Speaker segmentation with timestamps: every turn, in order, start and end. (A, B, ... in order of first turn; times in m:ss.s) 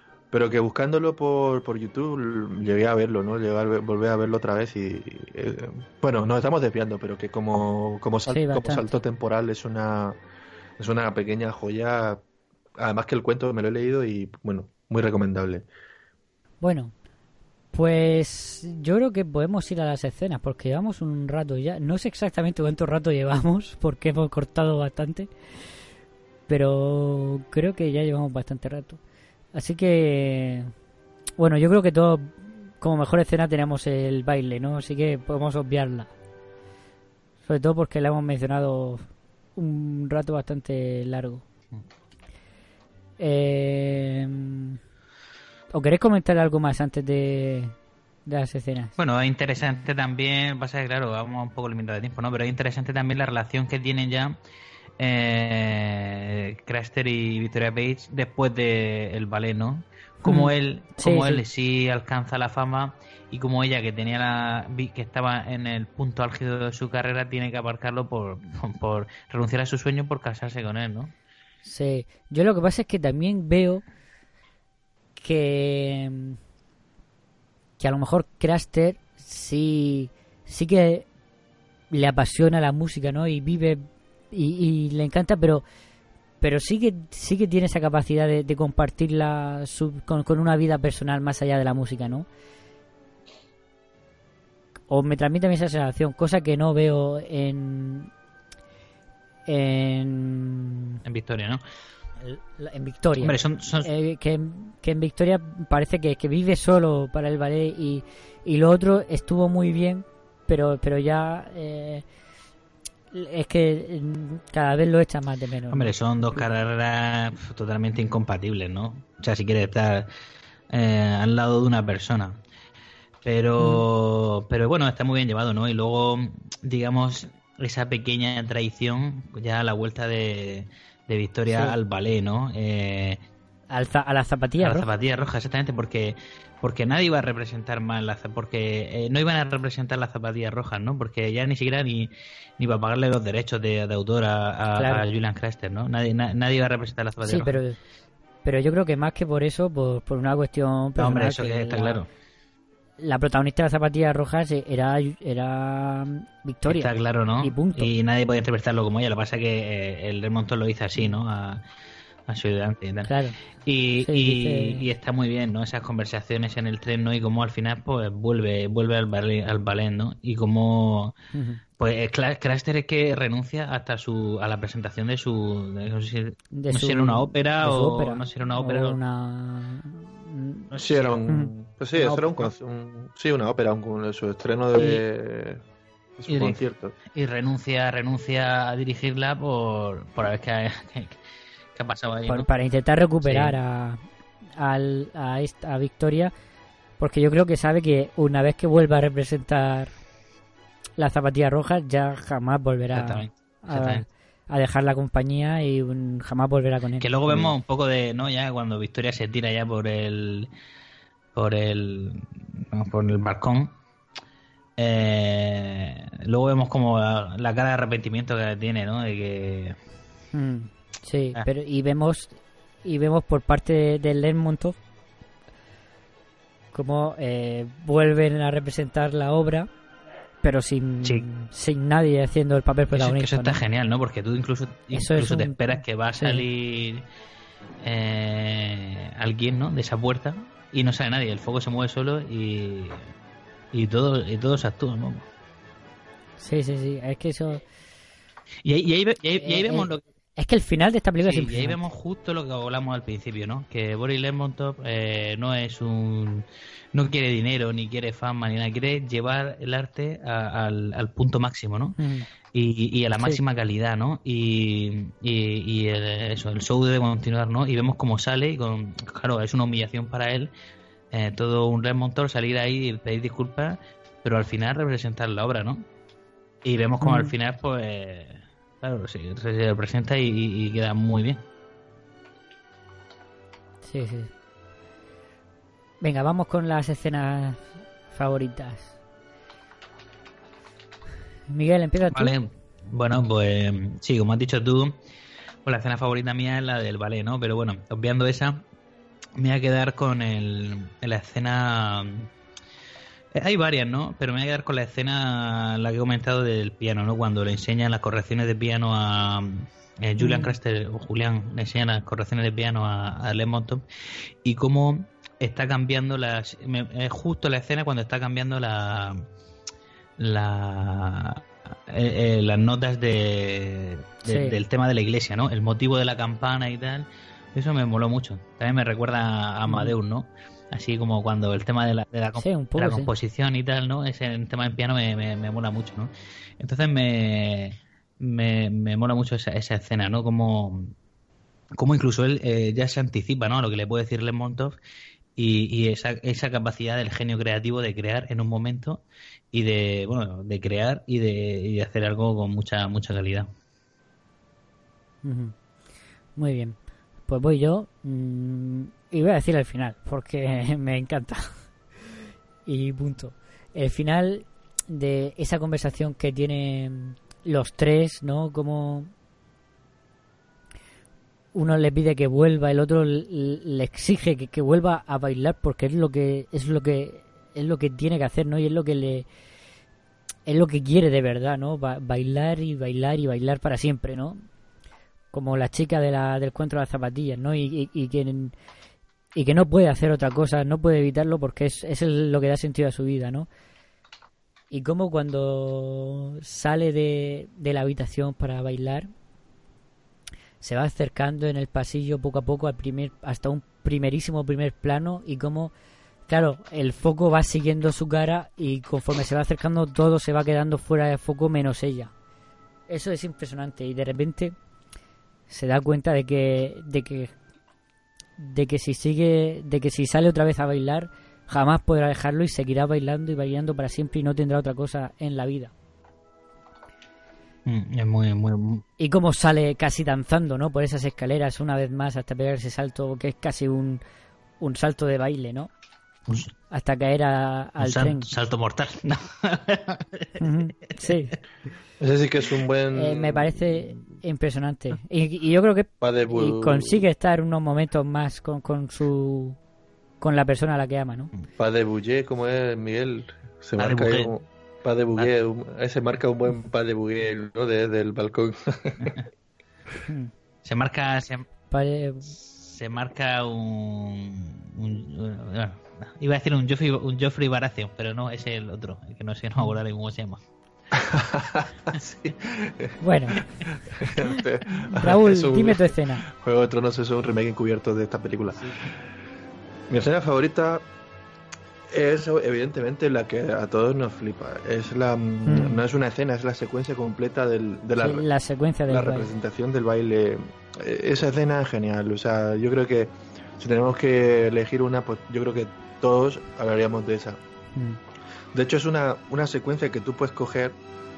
0:00.3-0:10.2 A
0:08.3-0:08.9 B
0:10.8-0:12.2 A
0:12.8-0:15.7 A
0:16.6-0:16.9 B
0:17.7-0:25.3 B
0:26.5-0:29.0 B
0:29.5-0:30.7 B
0:31.4-0:36.1 B
0:37.5-0:39.0 B
0:39.6-0:41.4 B
0:43.2-0:44.8 B
0:45.7-0:47.8 B
0:48.3-0:48.9 B
0:49.0-0:54.4 C
0:55.0-1:11.1 C
1:00.2-1:01.4 B
1:11.6-1:13.8 B
1:15.2-1:16.4 B
1:17.8-1:21.1 B
1:21.9-1:25.6 B
1:26.4-1:32.3 B
1:34.9-1:38.1 B
1:39.5-1:41.0 B
1:41.0-1:41.6 C
1:42.2-1:52.0 B
1:43.2-1:43.9 C
1:53.1-1:56.4 B
1:55.7-2:00.1 C
2:00.7-2:02.4 C
2:03.2-2:13.2 C
2:03.6-2:03.8 B
2:11.5-2:11.8 B
2:13.7-2:14.9 B
2:14.6-2:27.6 C
2:24.7-2:25.0 B
2:27.2-2:27.8 B
2:28.4-2:32.0 B
2:31.0-2:32.1 C
2:33.0-2:37.9 B
2:36.7-2:41.6 C
2:42.3-2:43.1 C
2:43.0-2:43.4 B
2:43.6-2:51.2 C
2:44.0-2:44.9 B
2:51.3-2:51.6 B
2:51.8-2:59.0 C
2:56.5-3:00.7 B
3:00.7-3:01.3 C
3:00.8-3:05.6 A
3:01.3-3:02.5 B
3:06.2-3:07.0 A
3:06.3-3:06.6 C
3:07.1-3:11.2 C
3:11.8-3:12.5 C
3:12.3-3:14.0 B
3:13.2-3:13.6 C
3:14.6-3:16.3 B
3:17.0-3:19.9 B
3:21.0-3:27.4 B
3:22.9-3:24.0 C
3:27.0-3:30.5 C
3:31.4-3:33.8 C
3:34.8-3:39.8 C
3:40.3-3:44.8 B
3:46.7-3:49.7 B
3:50.4-3:53.6 B
3:52.9-3:57.0 C
3:54.9-3:56.4 B
3:57.8-4:03.0 C
4:03.7-4:05.3 C
4:06.4-4:07.6 B
4:08.6-4:10.0 C
4:09.4-4:11.8 B
4:11.2-4:22.0 C
4:22.0-4:22.3 B
4:22.5-4:30.5 C
4:31.1-4:35.9 C
4:36.6-4:41.4 C
4:37.0-4:37.3 B
4:43.8-4:44.3 B
4:46.0-4:49.0 B
4:51.5-4:52.3 B
4:52.1-4:55.0 C
4:55.6-4:58.6 C
4:59.4-5:02.3 C
5:03.3-5:13.8 C
5:10.2-5:10.6 B
5:14.4-5:19.3 C
5:20.2-5:40.9 C
5:24.3-5:24.6 B
5:29.7-5:29.9 B
5:32.4-5:33.1 B
5:41.8-5:44.8 C
5:45.4-5:53.5 C
5:55.2-5:55.5 B
5:56.4-5:56.8 B
5:57.3-6:01.6 B
6:02.7-6:09.1 B
6:11.5-6:19.3 B
6:20.5-6:24.4 B
6:25.3-6:28.6 B
6:29.4-6:33.5 B
6:34.7-6:39.1 B
6:40.6-6:45.7 B
6:46.3-6:52.1 B
6:52.9-6:54.6 B
6:55.5-6:57.3 B
6:58.4-7:05.7 B
7:07.7-7:08.8 C
7:09.0-7:14.0 B
7:14.6-7:15.7 B
7:16.7-7:18.3 B
7:17.8-7:21.2 C
7:20.4-7:21.3 B
7:22.0-7:24.1 A
7:22.9-7:29.6 B
7:26.0-7:27.1 A
7:30.2-7:31.3 B
7:31.6-7:39.2 A
7:33.8-7:34.3 C
7:40.1-7:40.3 B
7:40.6-7:41.5 C
7:41.7-7:42.4 B
7:42.4-7:50.4 C
7:50.9-7:53.0 A
7:53.0-7:53.5 B
7:53.7-7:58.7 A
7:54.7-7:56.3 B
7:59.9-8:00.8 A
8:01.9-8:08.3 A
8:05.4-8:05.8 B
8:08.0-8:09.3 B
8:08.9-8:17.4 A
8:18.5-8:20.8 A